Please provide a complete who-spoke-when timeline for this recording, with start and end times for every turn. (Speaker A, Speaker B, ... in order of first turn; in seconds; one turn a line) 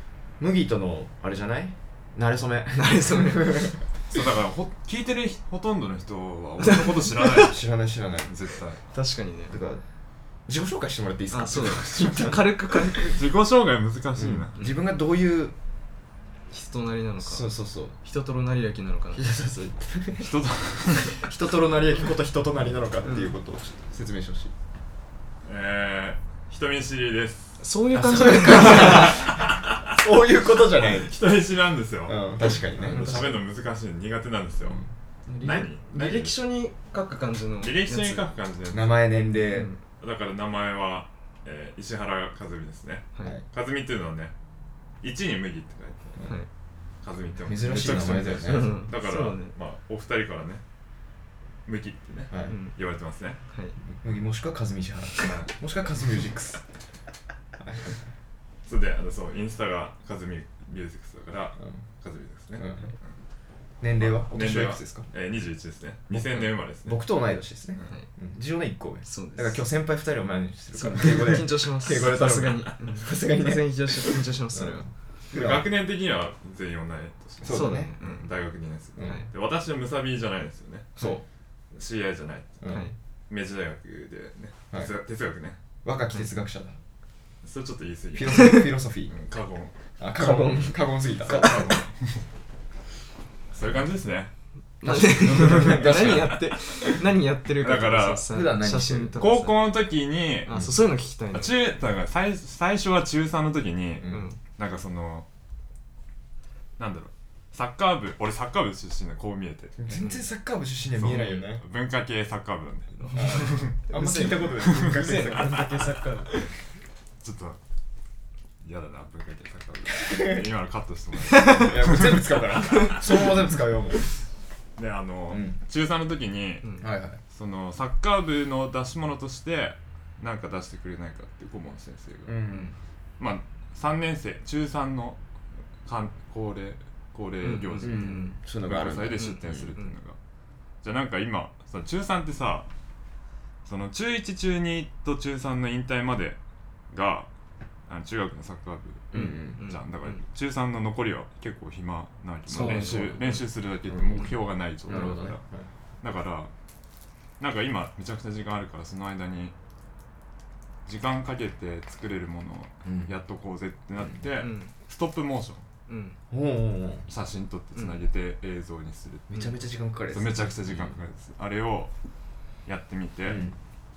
Speaker A: 0.4-3.8
Speaker B: 2.8-3.7
Speaker C: 4.1-7.6
Speaker B: 6.6-7.5
Speaker A: 7.4-8.4
Speaker C: 8.3-8.8
Speaker B: 8.9-9.5
Speaker A: 9.5-9.8
Speaker A: 10.5-13.2
Speaker B: 11.3-13.2
Speaker C: 13.1-14.6
Speaker A: 14.2-15.5
Speaker B: 14.6-14.8
Speaker B: 16.5-17.5
Speaker A: 17.2-18.0
Speaker B: 18.0-19.2
Speaker A: 19.1-24.5
Speaker C: 20.2-21.2
Speaker B: 23.0-23.3
Speaker C: 25.4-27.6
Speaker B: 27.6-29.2
Speaker A: 27.9-31.1
Speaker C: 28.3-29.9
Speaker C: 30.8-34.8
Speaker A: 32.1-33.3
Speaker B: 32.8-33.4
Speaker A: 34.6-34.9
Speaker B: 35.3-38.3
Speaker C: 35.4-36.3
Speaker C: 37.6-39.0
Speaker A: 38.7-39.7
Speaker B: 39.3-39.8
Speaker C: 40.0-44.3
Speaker C: 45.0-46.2
Speaker B: 46.2-46.5
Speaker C: 47.0-50.6
Speaker A: 47.5-48.8
Speaker B: 47.9-49.5
Speaker C: 51.6-53.4
Speaker A: 52.3-52.5
Speaker B: 52.5-52.7
Speaker B: 53.5-53.8
Speaker A: 53.9-56.6
Speaker B: 55.1-55.4
Speaker C: 55.2-55.5
Speaker A: 57.6-57.9
Speaker C: 58.6-63.1
Speaker A: 62.6-62.9
Speaker A: 63.8-65.1
Speaker C: 64.0-67.0
Speaker A: 66.1-73.8
Speaker B: 69.0-69.6
Speaker B: 70.7-74.9
Speaker A: 74.5-75.6
Speaker C: 75.3-81.0
Speaker A: 77.4-77.9
Speaker B: 77.4-78.3
Speaker A: 79.0-79.2
Speaker B: 79.0-79.3
Speaker A: 81.0-81.2
Speaker C: 81.7-82.7
Speaker A: 82.6-82.9
Speaker B: 82.7-82.9
Speaker C: 83.3-85.6
Speaker A: 85.8-86.8
Speaker C: 87.4-89.8
Speaker A: 88.1-89.1
Speaker B: 88.4-88.6
Speaker A: 90.0-91.7
Speaker B: 90.1-91.6
Speaker C: 91.2-92.2
Speaker C: 93.5-94.3
Speaker B: 94.8-99.6
Speaker A: 94.8-96.4
Speaker C: 94.9-97.0
Speaker C: 97.6-98.3
Speaker A: 98.3-99.2
Speaker C: 99.2-100.5
Speaker B: 100.4-101.5
Speaker A: 100.5-100.8
Speaker C: 101.3-105.3
Speaker A: 104.0-104.3
Speaker B: 104.1-104.4
Speaker C: 106.8-110.0
Speaker A: 109.8-111.6
Speaker B: 109.9-110.2
Speaker C: 110.9-114.0
Speaker B: 113.1-116.3
Speaker A: 113.1-115.9
Speaker C: 114.6-116.4
Speaker C: 117.2-117.6
Speaker C: 118.6-123.3
Speaker A: 120.0-120.4
Speaker B: 121.3-121.7
Speaker A: 121.5-124.0
Speaker B: 122.6-123.0
Speaker C: 124.8-126.7
Speaker A: 125.3-125.5
Speaker A: 126.8-127.2
Speaker C: 127.3-132.4
Speaker A: 132.2-132.8
Speaker C: 133.2-135.2
Speaker C: 135.8-140.2
Speaker B: 137.4-138.3
Speaker A: 137.8-139.7
Speaker B: 139.1-139.9
Speaker C: 140.8-142.7
Speaker C: 143.6-146.4
Speaker C: 146.9-147.3
Speaker C: 147.9-155.4
Speaker A: 149.1-149.6
Speaker B: 149.1-150.2
Speaker A: 152.5-153.3
Speaker B: 152.5-153.4
Speaker A: 153.9-154.3
Speaker A: 154.9-155.7
Speaker C: 156.0-156.5
Speaker C: 157.4-159.5
Speaker C: 160.8-165.7
Speaker A: 162.8-163.1
Speaker B: 164.4-164.7
Speaker B: 165.9-166.2
Speaker A: 166.3-167.1
Speaker C: 167.1-169.3
Speaker B: 167.7-168.0
Speaker A: 169.3-171.0
Speaker C: 170.1-171.9
Speaker C: 172.7-173.4
Speaker A: 173.2-173.6